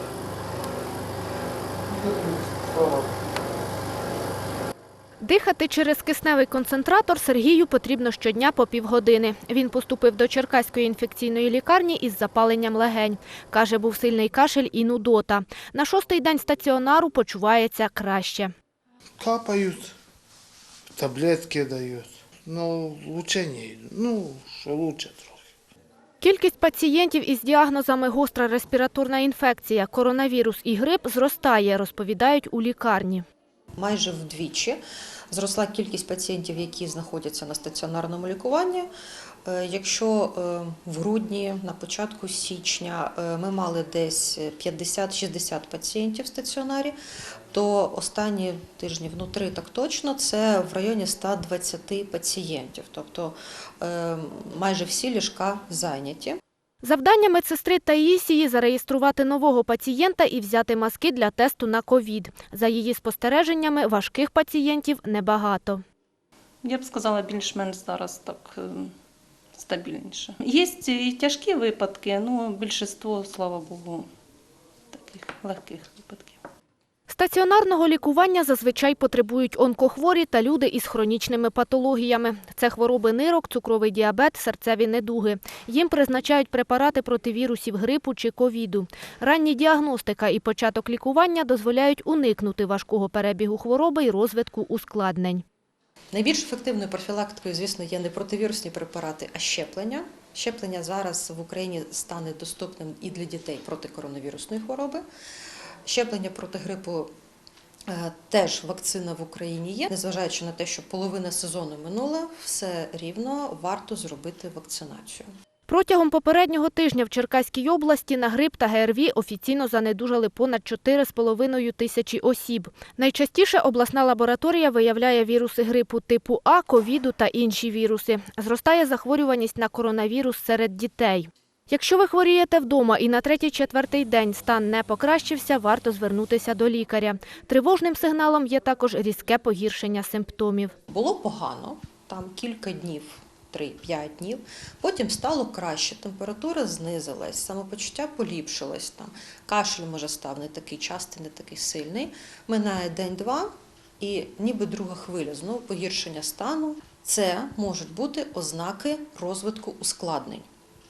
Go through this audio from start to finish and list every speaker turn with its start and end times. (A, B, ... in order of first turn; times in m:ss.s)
0:01.9-0:03.2 A
0:05.2-0:18.5 B
0:19.2-0:19.9 A
0:21.0-0:25.5 A
0:26.2-0:33.2 B
0:33.8-0:34.8 C
0:35.3-0:38.9 C
0:39.4-0:47.0 C
0:47.5-0:56.4 C
0:56.8-1:05.8 B
1:06.6-1:08.9 D
1:09.5-1:14.1 D
1:14.9-1:16.4 D
1:17.1-1:35.4 B
1:36.1-1:45.0 C
1:45.8-1:47.1 C
1:47.9-1:55.3 C
1:55.7-2:20.8 B
2:20.9-2:40.5 C